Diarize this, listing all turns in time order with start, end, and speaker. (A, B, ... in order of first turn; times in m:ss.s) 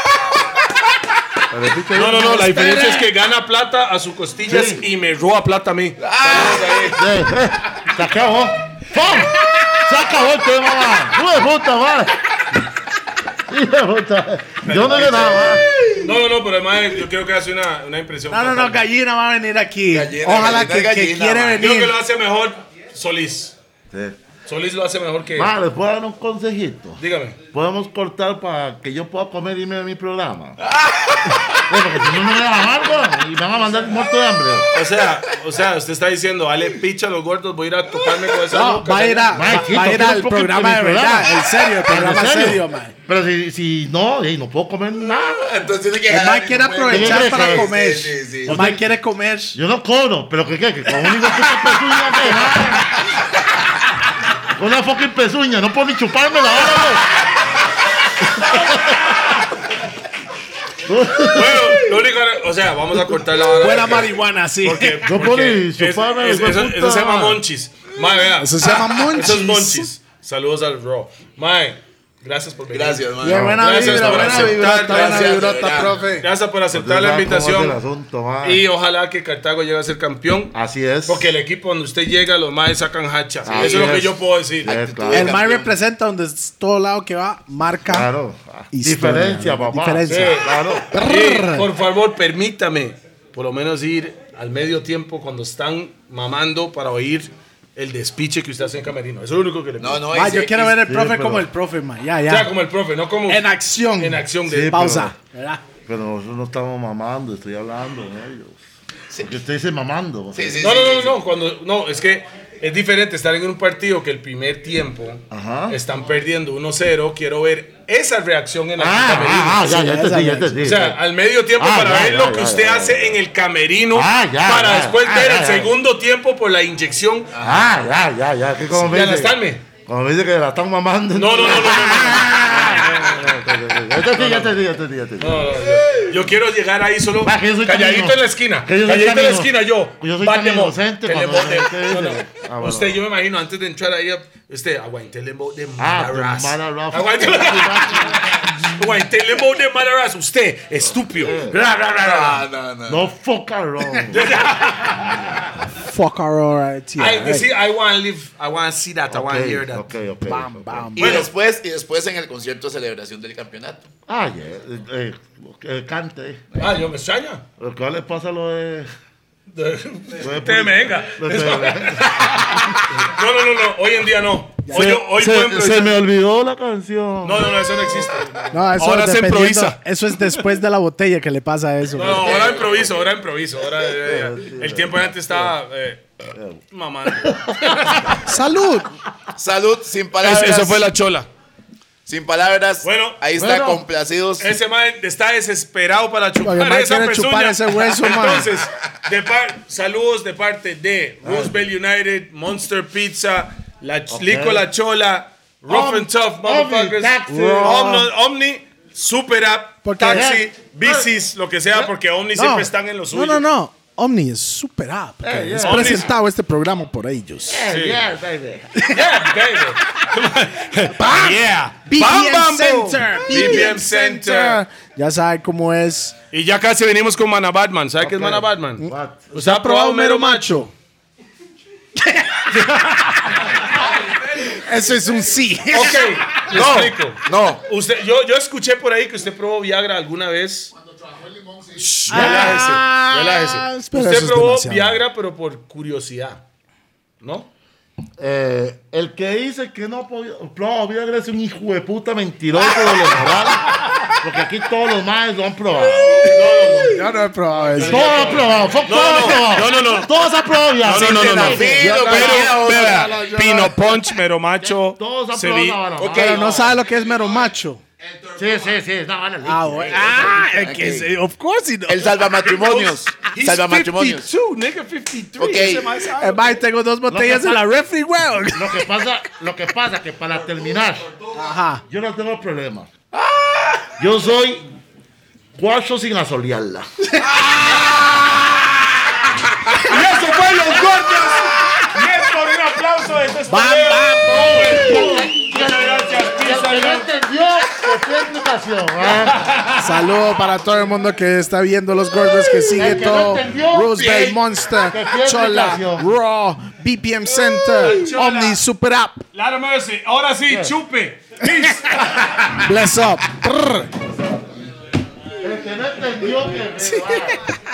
0:01.5-0:02.7 A
0:01.9-0:07.0 B
0:02.4-0:03.0 C
0:04.5-0:04.8 A
0:06.0-0:07.0 D
0:06.9-0:12.2 A
0:13.5-0:15.6 A
0:14.6-0:18.8 B
0:18.3-0:22.0 C
0:19.9-0:21.7 D
0:21.6-0:23.6 B
0:23.9-0:24.2 A
0:24.5-0:25.5 B
0:25.3-0:27.0 A
0:27.0-0:27.4 B
0:27.5-0:30.6 A
0:30.6-0:31.6 D
0:31.3-0:34.7 A
0:34.7-0:39.5 B
0:38.5-0:42.9 C
0:39.3-0:45.6 A
0:45.2-0:48.6 D
0:46.1-0:49.6 C
0:46.8-0:47.7 A
0:48.4-0:48.9 A
0:49.5-0:53.0 A
0:51.0-0:52.8 D
0:54.5-0:57.1 A
0:58.3-0:59.0 A
1:00.8-1:01.8 A
1:01.3-1:17.8 B
1:03.5-1:05.1 C
1:05.0-1:07.4 A
1:08.4-1:09.9 C
1:12.7-1:16.0 D
1:13.2-1:16.3 C
1:13.3-1:13.8 A
1:16.7-1:18.6 A
1:18.4-1:20.6 B
1:20.5-1:21.3 A
1:21.0-1:24.7 B
1:23.4-1:25.4 A
1:23.5-1:24.0 D
1:24.6-1:25.7 D
1:25.1-1:28.1 C
1:27.8-1:30.9 A
1:28.7-1:31.7 C
1:30.0-1:40.3 B
1:39.8-1:40.8 D
1:40.1-1:42.5 C
1:40.8-1:41.4 A
1:42.3-1:45.0 B
1:43.3-1:45.6 C
1:44.4-1:45.1 A
1:45.8-1:48.6 A
1:49.2-1:50.7 A
1:50.3-1:51.2 D
1:50.6-1:59.7 B
1:55.3-1:55.8 A
1:58.8-2:01.0 A
1:59.5-2:00.6 C
2:00.6-2:07.3 B
2:01.6-2:03.2 A
2:03.9-2:05.7 A
2:07.3-2:07.7 D
2:07.4-2:15.5 A
2:08.7-2:09.6 B
2:11.1-2:13.3 B
2:14.1-2:14.6 B
2:15.2-2:32.4 B
2:17.2-2:23.0 A
2:25.8-2:28.2 A
2:30.9-2:34.4 A
2:31.7-2:33.1 D
2:34.1-2:35.4 B
2:35.7-2:37.5 C
2:37.0-2:39.9 B
2:39.1-2:41.0 A
2:40.2-2:41.3 C
2:41.0-2:43.9 D
2:41.0-2:41.3 B
2:44.1-2:46.4 A
2:46.6-2:47.4 B
2:47.6-2:48.9 A
2:49.5-2:56.0 B
2:50.1-2:52.8 A
2:54.6-2:55.0 C
2:54.7-2:58.0 A
2:57.2-2:59.8 B
2:58.5-3:02.4 C
3:01.9-3:06.0 B
3:02.0-3:03.1 D
3:04.0-3:05.5 A
3:06.3-3:06.6 A
3:06.7-3:08.2 B
3:07.2-3:08.2 A
3:08.2-3:08.9 C
3:09.4-3:10.9 D
3:10.2-3:11.3 B
3:12.0-3:14.5 D
3:12.8-3:13.2 B
3:13.3-3:13.8 A
3:14.4-3:33.4 B
3:16.4-3:18.5 C
3:21.2-3:21.6 A
3:24.1-3:24.6 A
3:25.7-3:28.1 A
3:29.8-3:30.4 C
3:30.0-3:31.1 A
3:32.4-3:37.6 C
3:35.2-3:36.1 A
3:35.6-3:36.1 B
3:37.5-3:38.8 A
3:37.7-3:38.0 B
3:38.7-3:39.2 C
3:38.9-3:44.6 B
3:39.8-3:40.0 C
3:40.9-3:46.2 C
3:46.3-3:50.7 B
3:48.0-3:49.3 A
3:48.8-3:50.7 C
3:52.0-3:53.4 C
3:54.4-3:56.2 C
3:55.7-4:00.7 B
3:56.5-3:57.6 D
4:01.7-4:05.0 C
4:01.8-4:06.4 B
4:02.1-4:02.7 A
4:07.2-4:07.5 B
4:08.2-4:16.4 A
4:16.2-4:20.1 B
4:16.3-4:16.9 D
4:16.9-4:18.3 C
4:17.8-4:22.4 A
4:20.8-4:25.8 B
4:20.8-4:23.9 D
4:22.2-4:22.5 C
4:24.8-4:26.6 A
4:25.9-4:26.8 D
4:26.1-4:27.8 C
4:28.4-4:30.6 A
4:29.4-4:32.2 C
4:30.6-4:31.1 D
4:31.9-4:34.3 D
4:32.4-4:36.6 B
4:35.4-4:36.0 D
4:36.1-4:39.0 C
4:37.1-4:37.6 A
4:38.5-4:41.0 A
4:41.3-4:41.8 C
4:41.9-4:42.9 A
4:43.1-4:43.9 D
4:44.0-4:44.6 A
4:45.6-4:46.9 A
4:47.1-4:48.0 C
4:47.3-4:48.2 D
4:49.8-4:57.1 B
4:53.5-4:55.2 C
4:54.1-4:59.4 A
4:59.1-5:00.1 B
4:59.8-5:09.2 C
5:02.8-5:06.1 A
5:07.6-5:08.6 B
5:09.3-5:12.6 B
5:10.5-5:10.8 A
5:12.5-5:13.9 C
5:15.4-5:17.4 A
5:16.8-5:17.4 C